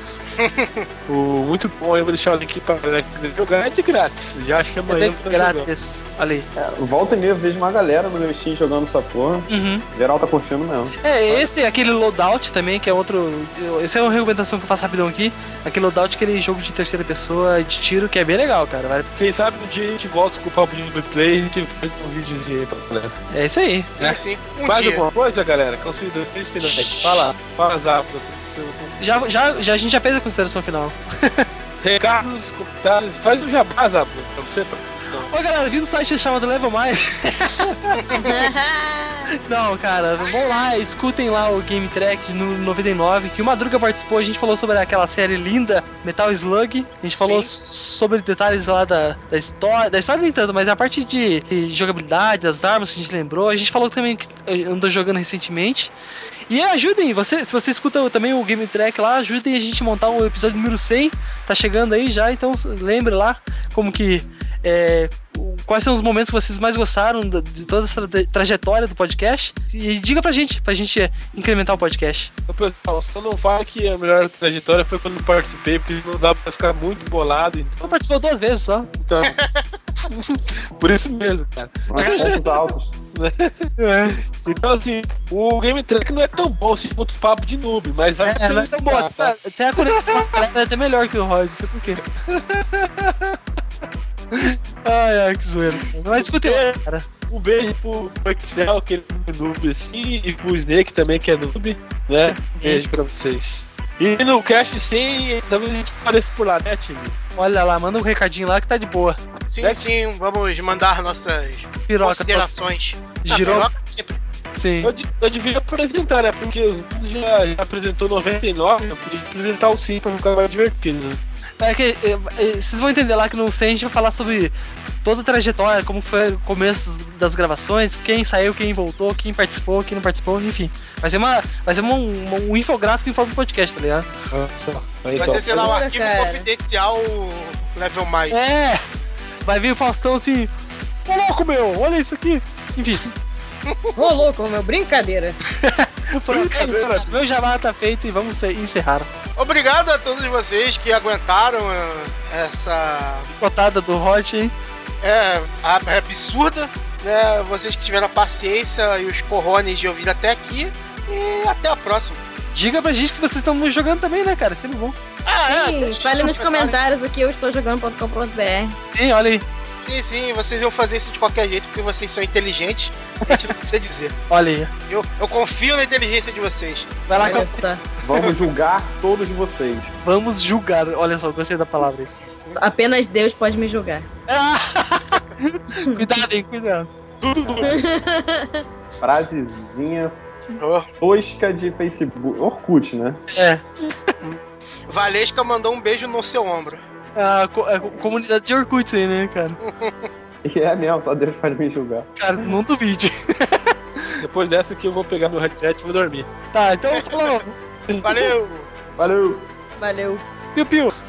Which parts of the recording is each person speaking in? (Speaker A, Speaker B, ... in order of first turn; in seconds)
Speaker A: 0.4-0.9, 24.0-25.0, 37.9-38.4, 47.2-47.5, 79.2-79.7, 109.5-114.2, 135.2-138.4, 143.7-144.1, 149.4-153.3, 155.0-162.2, 165.3-166.8, 169.8-174.2, 174.9-177.3, 190.6-190.9, 194.2-196.8, 199.6-200.1, 206.9-207.4, 208.0-208.7
Speaker B: 1.1-5.7, 19.1-23.2, 24.6-29.6, 31.8-35.3, 72.5-78.0, 79.0-79.3, 80.0-82.4, 83.2-90.5, 92.3-93.4, 95.8-96.8, 97.3-107.2, 109.6-109.9, 114.8-121.2, 134.3-135.8, 146.3-147.1, 187.2-187.8, 204.2-206.3, 207.9-208.3
Speaker C: 4.9-6.5, 9.5-9.8, 11.0-19.1, 23.3-24.2, 26.6-27.4, 29.0-31.5, 35.3-38.0, 39.4-55.9, 56.5-72.3, 77.8-78.9, 82.0-82.4, 83.8-84.2, 88.2-92.0, 94.3-97.1, 102.6-102.9, 107.4-109.2, 111.9-112.5, 113.2-113.8, 114.5-114.9, 121.6-134.1, 138.3-138.8, 139.4-140.5, 141.1-143.1, 145.6-149.1, 153.4-154.5, 162.5-165.0, 168.9-169.4, 174.3-174.7, 177.1-177.6, 180.0-182.1, 184.3-186.9, 193.3-193.6, 197.2-199.6, 202.2-204.2, 206.5-207.5, 210.6-210.9
Speaker D: 6.6-11.5, 81.9-82.9, 178.0-179.9, 187.4-187.8, 189.0-190.3, 191.0-193.2, 200.4-202.6, 209.0-209.5
Speaker E: 38.2-39.3, 135.2-136.5, 144.0-145.4, 165.5-168.8, 177.2-177.8, 182.5-184.1, 185.8-186.1, 187.6-188.6, 209.8-210.2